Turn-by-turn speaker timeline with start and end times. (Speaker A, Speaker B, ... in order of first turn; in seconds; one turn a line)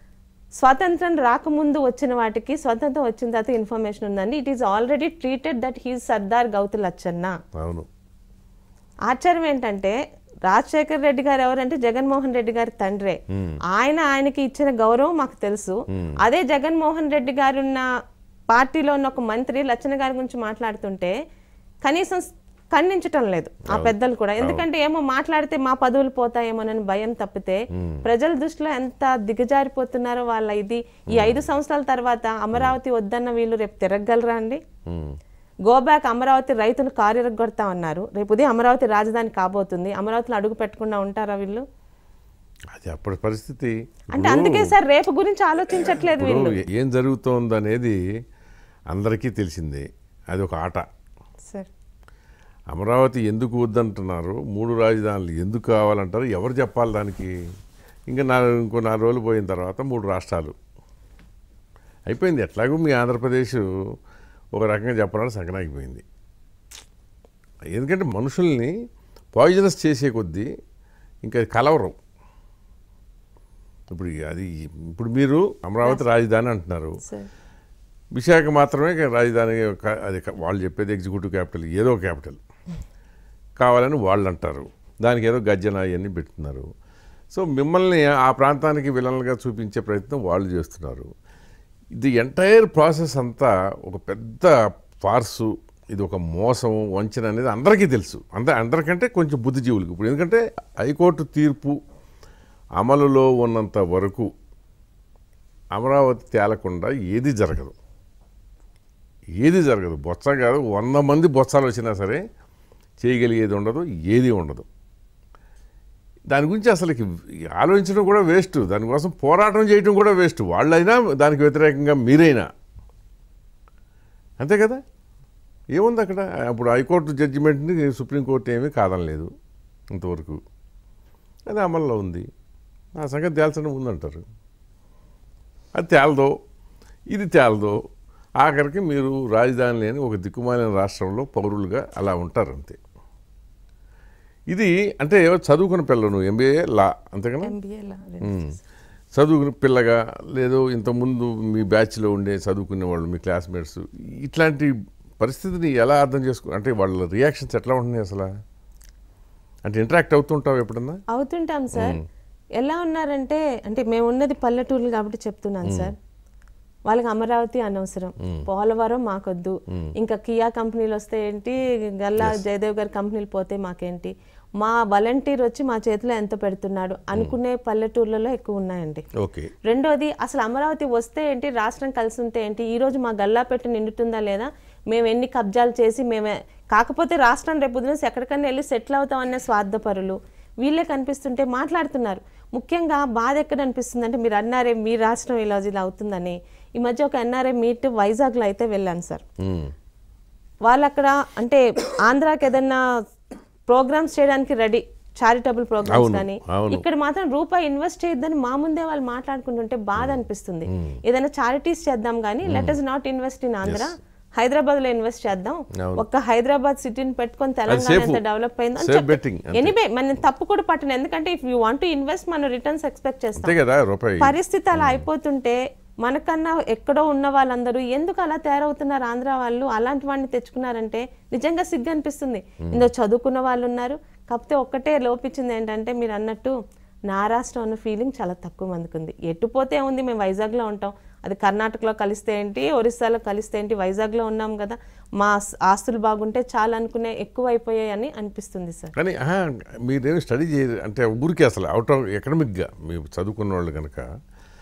Speaker A: 0.6-7.3
Speaker B: 7.6-7.9
Speaker A: 9.1-10.0
Speaker A: 10.5-13.2
Speaker B: 13.3-13.6
Speaker A: 13.7-17.8
Speaker B: 15.9-16.2
Speaker A: 18.5-21.1
Speaker A: 21.9-34.6
Speaker B: 23.7-24.6
Speaker B: 27.7-28.0
Speaker B: 31.1-31.4
Speaker B: 34.9-35.2
Speaker A: 35.7-41.6
Speaker B: 42.7-44.7
Speaker A: 44.1-46.6
Speaker B: 46.2-48.0
Speaker B: 48.9-50.8
Speaker B: 52.7-57.3
Speaker B: 58.1-60.5
Speaker B: 62.1-63.6
Speaker B: 64.6-66.0
Speaker B: 67.7-68.7
Speaker B: 69.4-70.5
Speaker B: 71.2-72.0
Speaker B: 73.9-77.0
Speaker A: 77.0-77.3
Speaker B: 78.2-82.4
Speaker B: 83.6-86.7
Speaker B: 87.3-91.1
Speaker B: 92.0-94.5
Speaker B: 95.1-101.8
Speaker B: 102.8-104.3
Speaker B: 105.8-107.8
Speaker B: 109.4-112.2
Speaker B: 113.0-114.7
Speaker B: 116.3-117.1
Speaker B: 117.6-122.5
Speaker B: 124.4-124.8
Speaker B: 125.8-129.3
Speaker B: 129.9-130.4
Speaker B: 131.5-132.3
Speaker B: 133.0-134.2
Speaker B: 135.8-136.3
Speaker B: 137.1-137.8
Speaker B: 138.4-142.8
Speaker B: 144.5-147.5
Speaker A: 147.4-148.6
Speaker B: 148.2-148.5
Speaker B: 149.2-158.3
Speaker B: 159.7-161.0
Speaker A: 161.1-162.0
Speaker B: 161.8-162.0
Speaker A: 162.6-165.9
Speaker B: 165.7-165.9
Speaker A: 166.9-179.1
Speaker B: 179.2-179.5
Speaker A: 179.7-199.2
Speaker B: 199.4-199.7
Speaker A: 200.7-202.8
Speaker A: 203.7-223.5
Speaker B: 205.9-206.8
Speaker B: 210.0-211.0
Speaker B: 212.5-212.8
Speaker B: 215.8-216.0
Speaker B: 217.7-218.2
Speaker B: 218.8-219.8
Speaker B: 223.4-225.1
Speaker A: 224.2-236.5
Speaker B: 232.6-232.9
Speaker A: 237.1-248.9
Speaker B: 249.0-254.1